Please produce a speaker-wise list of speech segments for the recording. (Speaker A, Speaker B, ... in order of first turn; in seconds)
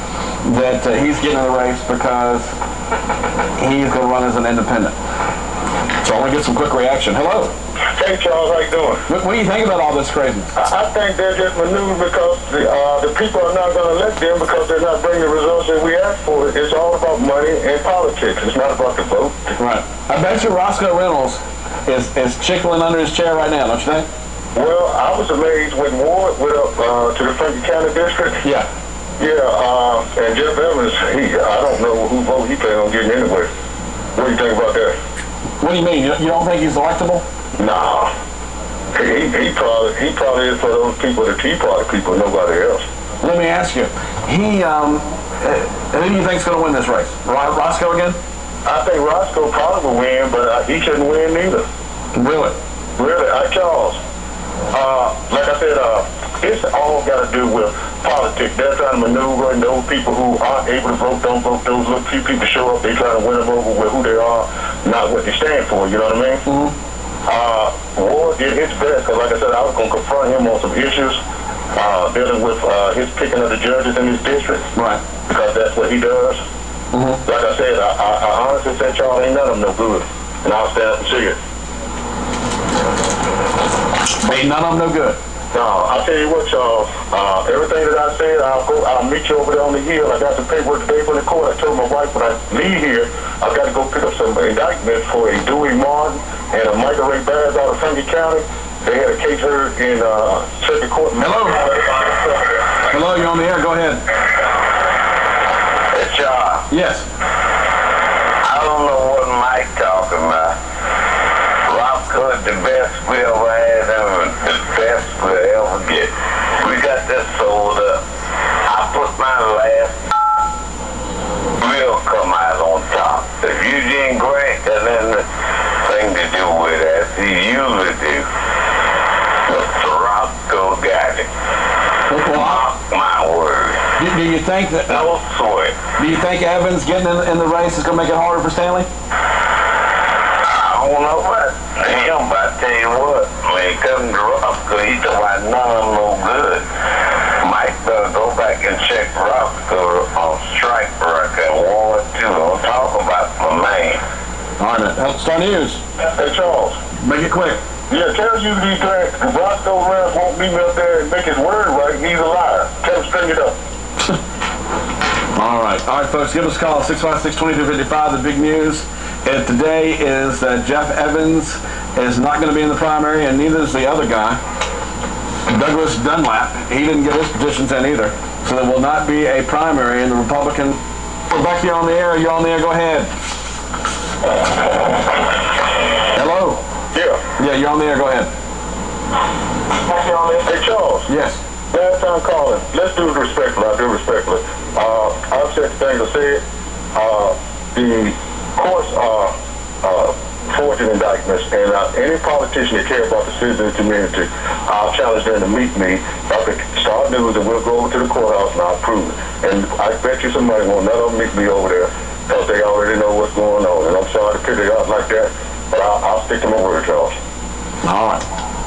Speaker A: 0.4-2.5, 3.6-5.0, 6.0-7.5, 9.1-10.6, 19.6-24.1, 28.4-28.7, 35.6-37.2, 43.2-48.2, 52.1-52.5, 66.5-66.7, 74.8-75.0, 76.9-77.2, 84.2-85.2, 101.2-101.6, 102.9-104.0, 106.7-107.1, 132.1-132.6, 134.0-135.1, 136.0-138.9, 154.6-155.8, 157.0-157.6, 165.3-174.4, 175.5-180.8, 181.3-183.1, 186.1-186.6, 187.4-188.3, 191.1-191.4, 217.8-218.2
Speaker B: 7.9-9.0, 10.6-19.5, 24.6-28.4, 29.2-33.5, 34.2-35.0, 37.6-38.1, 39.0-42.8, 48.6-51.7, 53.0-54.0, 54.7-66.4, 67.3-71.2, 71.8-74.7, 75.3-76.4, 77.2-81.4, 85.5-101.7, 156.1-156.8, 157.9-163.5, 186.9-187.2, 189.9-191.1, 191.7-196.4, 196.9-217.1
Speaker C: 105.9-106.7, 108.4-110.5, 111.7-118.0, 118.7-120.1, 121.6-125.2, 125.8-128.3, 129.5-131.3, 132.2-133.8, 134.9-135.8, 140.5-146.7, 147.4-154.0